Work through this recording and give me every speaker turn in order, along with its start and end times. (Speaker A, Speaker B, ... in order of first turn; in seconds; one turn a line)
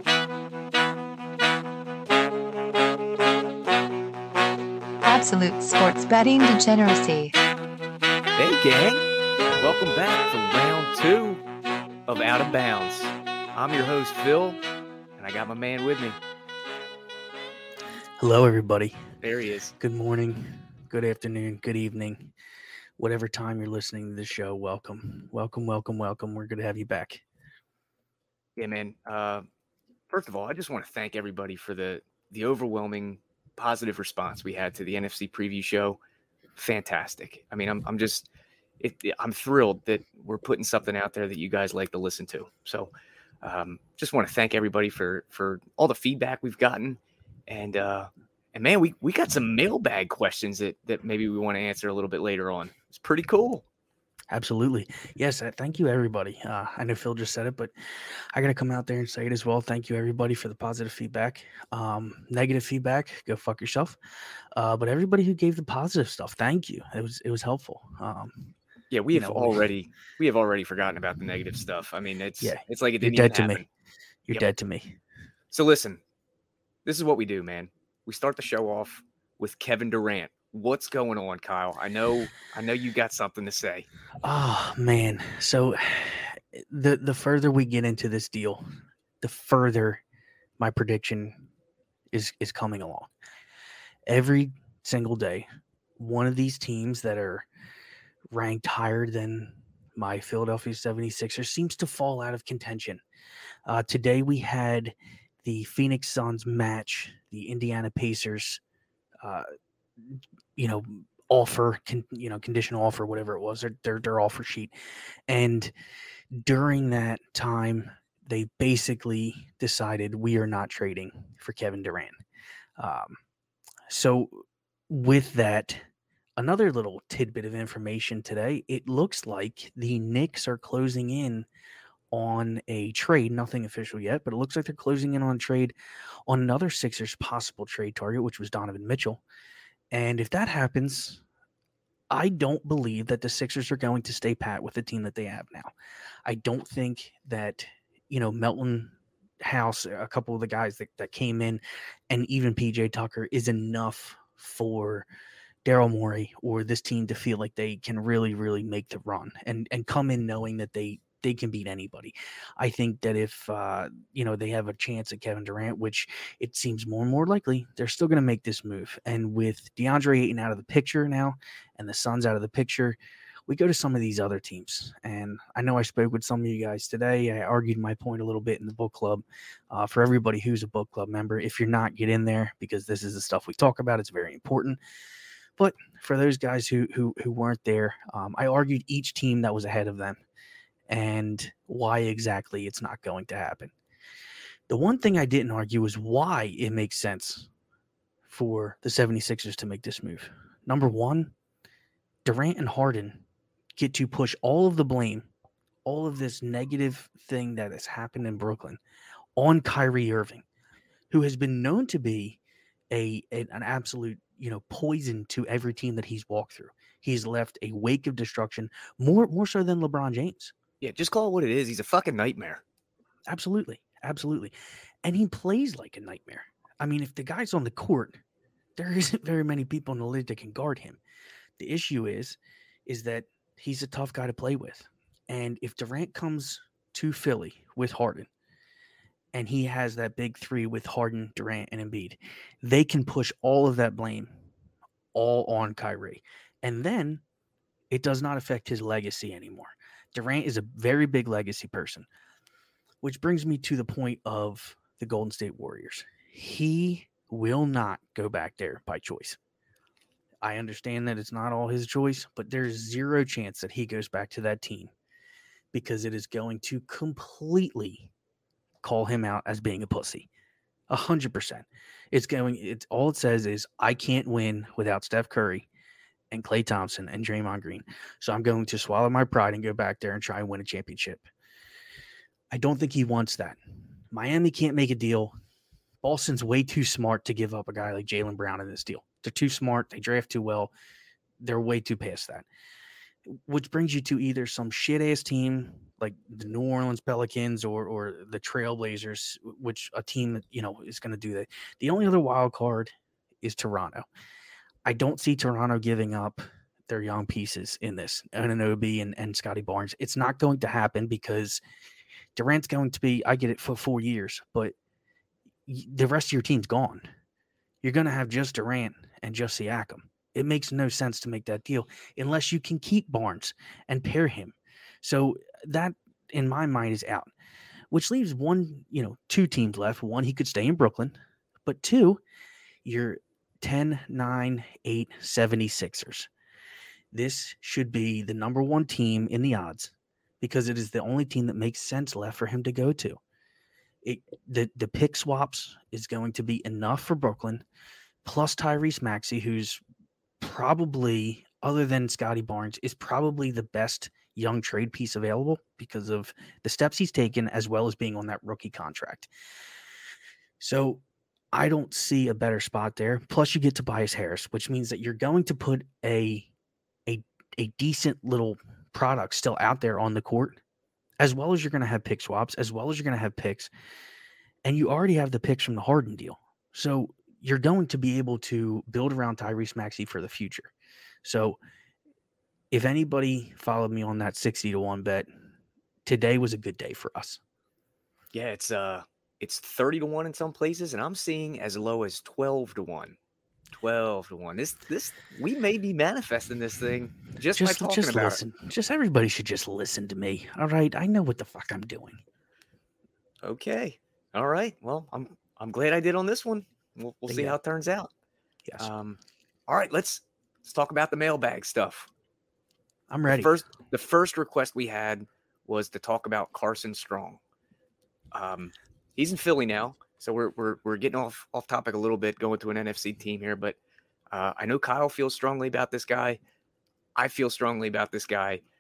Speaker A: 5.0-7.4
Speaker B: 8.4-9.1
Speaker B: 9.6-11.4
Speaker B: 12.1-14.6
Speaker B: 15.2-16.2
Speaker C: 18.2-19.0
Speaker B: 19.2-19.7
Speaker C: 19.8-22.3
Speaker C: 23.0-27.2
Speaker B: 28.6-29.5
Speaker B: 30.1-36.0
Speaker B: 36.6-38.3
Speaker B: 38.8-42.9
Speaker B: 43.4-53.6
Speaker C: 54.3-57.7
Speaker C: 58.3-64.0
Speaker C: 64.5-68.5
Speaker B: 68.9-73.7
Speaker C: 69.1-69.7
Speaker C: 72.4-73.7
Speaker C: 74.3-75.0
Speaker B: 75.5-76.0
Speaker B: 76.8-83.9
Speaker C: 84.2-88.6
Speaker C: 89.2-90.0
Speaker C: 90.6-91.4
Speaker C: 92.1-93.1
Speaker C: 94.1-95.5
Speaker C: 96.0-97.5
Speaker C: 98.3-103.0
Speaker C: 103.7-108.6
Speaker C: 110.0-114.7
Speaker C: 115.3-115.7
Speaker C: 116.3-122.2
Speaker C: 122.8-123.2
Speaker C: 123.9-125.9
Speaker C: 126.4-131.5
Speaker C: 132.1-135.8
Speaker C: 136.3-139.2
Speaker C: 139.9-141.2
Speaker C: 142.1-145.7
Speaker C: 146.2-155.1
Speaker C: 155.6-184.8
Speaker C: 185.6-190.2
Speaker C: 190.9-193.7
Speaker C: 194.7-197.5
Speaker C: 198.3-201.3
Speaker C: 202.2-203.2
Speaker C: 203.8-205.3
Speaker C: 205.8-208.8
Speaker C: 209.4-210.4
Speaker C: 211.1-212.4
Speaker C: 212.9-220.5
Speaker B: 220.8-222.6
Speaker C: 223.3-228.2
Speaker C: 228.8-231.0
Speaker C: 231.6-238.3
Speaker C: 239.3-244.4
Speaker C: 245.1-247.2
Speaker C: 247.9-252.1
Speaker C: 253.0-259.4
Speaker C: 260.4-264.9
Speaker C: 265.7-268.1
Speaker C: 268.8-270.3
Speaker C: 270.9-275.7
Speaker C: 276.3-281.2
Speaker C: 282.5-285.3
Speaker C: 286.0-290.7
Speaker C: 291.4-292.5
Speaker C: 293.3-304.1
Speaker C: 304.9-311.6
Speaker C: 312.4-314.7
Speaker C: 315.7-317.1
Speaker C: 317.8-327.3
Speaker C: 327.9-332.2
Speaker C: 332.8-336.3
Speaker C: 337.1-343.2
Speaker C: 344.0-347.6
Speaker C: 348.2-349.8
Speaker C: 350.4-359.3
Speaker C: 360.6-366.5
Speaker C: 367.1-370.6
Speaker C: 371.2-373.7
Speaker C: 374.6-380.7
Speaker C: 381.2-381.6
Speaker C: 382.7-385.3
Speaker C: 386.1-387.4
Speaker B: 388.3-393.2
Speaker B: 393.8-398.4
Speaker C: 397.6-402.2
Speaker B: 403.4-408.1
Speaker C: 407.3-407.6
Speaker B: 408.8-412.1
Speaker C: 413.1-413.5
Speaker B: 413.3-417.4
Speaker B: 418.3-423.8
Speaker B: 424.3-426.4
Speaker B: 427.2-428.6